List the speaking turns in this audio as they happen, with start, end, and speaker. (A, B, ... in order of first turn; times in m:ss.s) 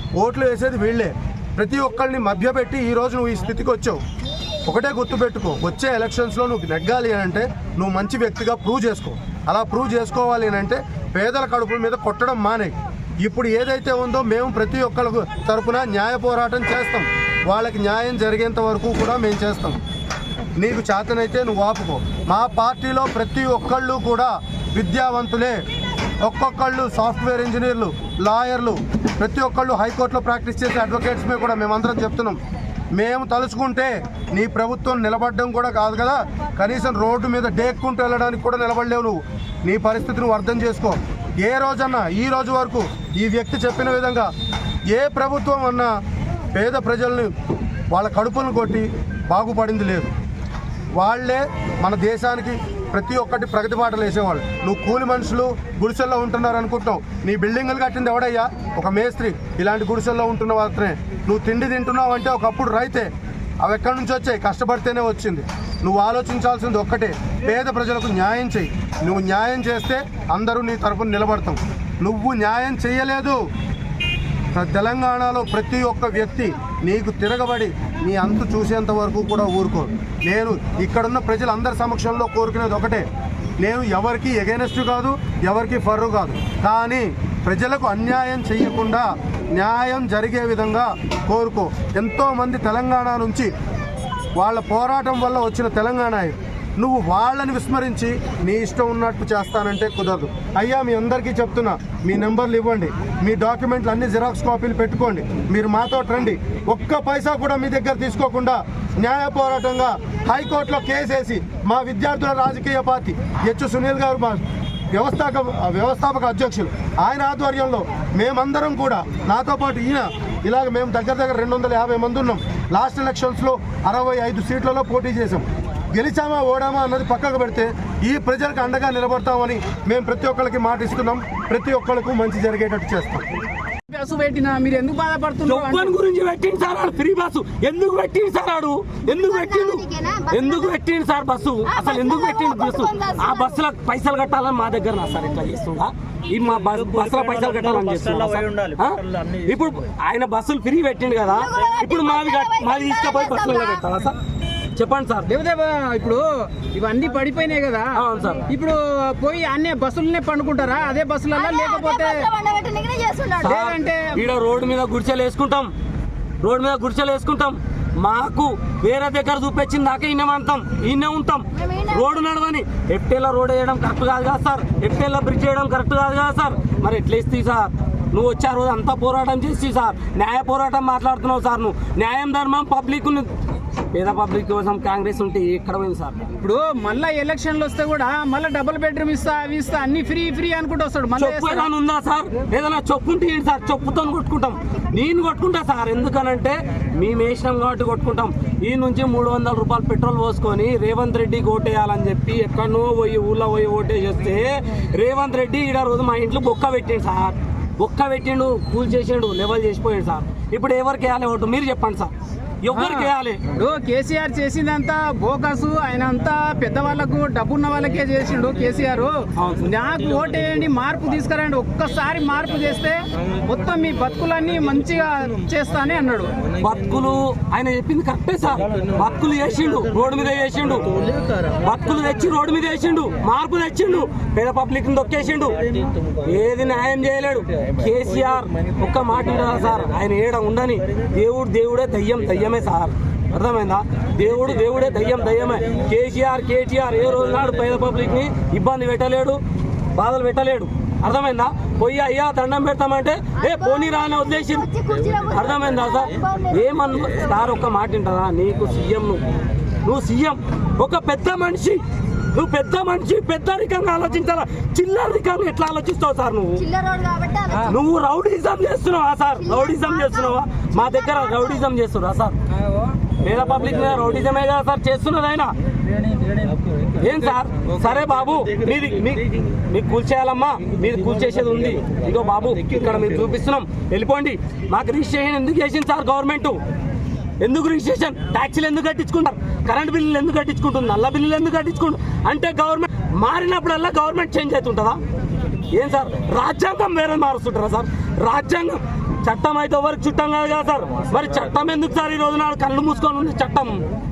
0:00.2-0:04.0 A
0:04.7-0:19.8 A
0:20.6-0:25.6 A
0:26.2-0:32.4 A
0:33.0-0:44.3 A
0:44.9-0:45.9 A
0:46.5-0:47.3 A
0:47.9-0:50.1 A
0:51.0-1:03.1 A
1:03.6-1:13.4 A
1:14.6-1:23.1 A
1:23.6-1:33.5 A
1:34.4-2:13.3 A
2:13.9-2:16.0 B
2:15.4-2:34.2 C
2:19.1-2:20.8 D
2:21.7-2:23.6 D
2:31.3-2:33.9 D
2:34.8-2:35.3 C
2:35.3-2:42.3 B
2:38.0-2:38.5 C
2:41.4-2:43.4 D
2:43.4-2:44.2 B
2:43.4-2:45.7 C
2:46.4-3:03.3 C
2:51.5-2:52.2 D
3:03.9-3:06.3 C
3:06.4-3:11.7 B
3:11.2-3:32.1 C
3:32.6-3:33.4 C
3:32.7-3:46.4 B
3:39.4-3:39.7 C
3:46.5-3:50.9 C
3:51.6-3:55.6 C
3:56.2-4:09.4 C
4:10.0-4:14.7 C
4:13.4-4:17.3 D
4:15.3-4:19.2 C
4:19.8-4:21.8 C
4:22.3-4:26.7 C
4:26.6-4:27.7 D
4:27.6-4:32.4 C
4:29.4-4:31.7 D
4:33.2-4:35.5 C
4:37.0-4:46.6 C
4:47.4-4:55.0 C
4:55.7-5:03.8 C